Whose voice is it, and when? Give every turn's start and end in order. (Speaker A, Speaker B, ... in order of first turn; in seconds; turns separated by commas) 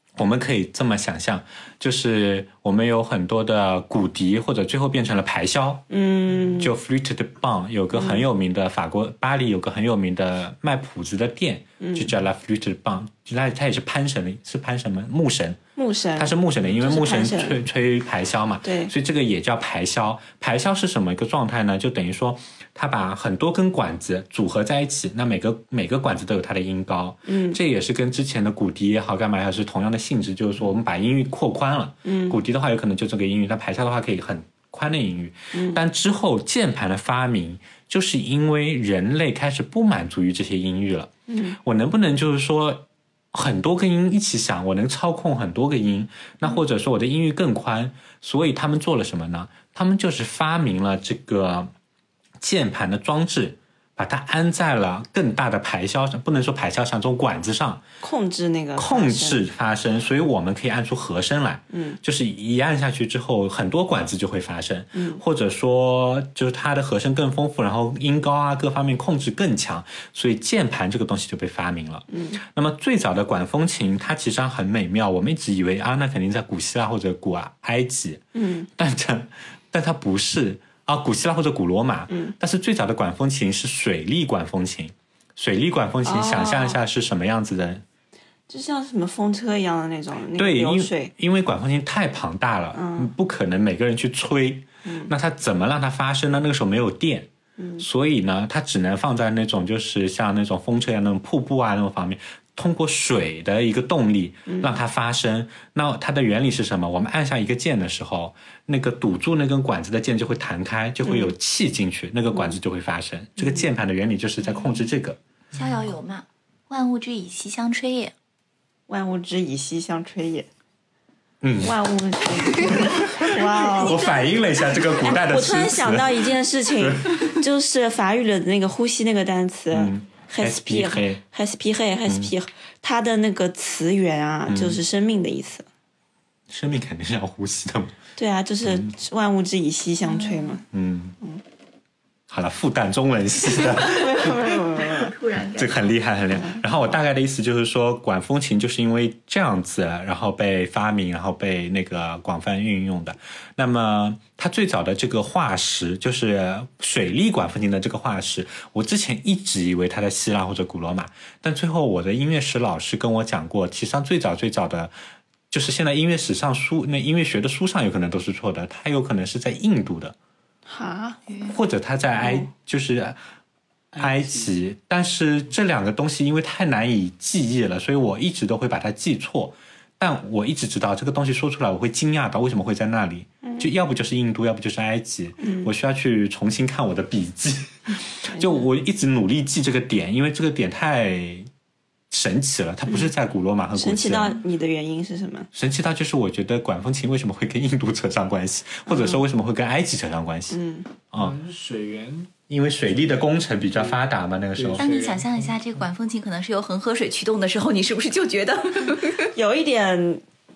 Speaker A: 0.1-5.8, Speaker B: 5.9-6.7, Speaker A: 6.6-15.6, Speaker B: 7.9-8.2, Speaker B: 11.8-12.1, Speaker B: 15.8-17.6, Speaker A: 16.2-51.7, Speaker B: 18.6-18.9, Speaker B: 27.2-27.6, Speaker B: 32.0-32.4, Speaker B: 35.5-35.8, Speaker B: 41.3-41.6, Speaker A: 52.4-57.8, Speaker B: 58.0-59.4, Speaker A: 58.8-78.2, Speaker B: 61.7-62.0, Speaker B: 64.9-65.2, Speaker B: 72.1-72.4, Speaker B: 78.3-78.7, Speaker A: 78.8-87.8, Speaker B: 82.1-82.3, Speaker B: 86.0-86.8, Speaker B: 88.5-91.1, Speaker A: 90.3-97.3, Speaker B: 92.7-93.1, Speaker B: 94.8-95.1, Speaker B: 97.6-97.8, Speaker A: 97.8-115.2, Speaker B: 104.5-104.7, Speaker B: 111.0-111.3, Speaker B: 113.4-113.6, Speaker C: 115.5-118.1, Speaker B: 118.9-120.5, Speaker A: 121.4-121.7, Speaker B: 121.6-124.0, Speaker C: 122.7-125.1, Speaker A: 123.8-127.3, Speaker B: 125.0-135.7, Speaker A: 129.7-131.2, Speaker A: 134.5-134.8, Speaker A: 136.5-137.9, Speaker B: 138.2-140.6, Speaker A: 138.6-138.9, Speaker C: 140.1-140.6, Speaker A: 140.7-141.2, Speaker A: 142.3-144.5, Speaker B: 143.5-145.1, Speaker C: 144.8-146.0, Speaker A: 145.5-164.9, Speaker A: 165.5-170.1, Speaker B: 170.7-171.2, Speaker A: 171.5-173.2, Speaker B: 172.2-172.5, Speaker A: 173.9-191.5, Speaker B: 185.4-185.7, Speaker B: 188.3-188.6, Speaker A: 192.1-194.4, Speaker B: 193.8-195.5, Speaker A: 195.5-200.6, Speaker B: 198.9-199.2, Speaker B: 200.5-200.9, Speaker A: 201.1-201.4, Speaker D: 201.2-202.3, Speaker A: 202.5-204.8, Speaker D: 202.9-204.0, Speaker D: 204.5-205.5, Speaker C: 204.8-209.3, Speaker B: 209.3-210.2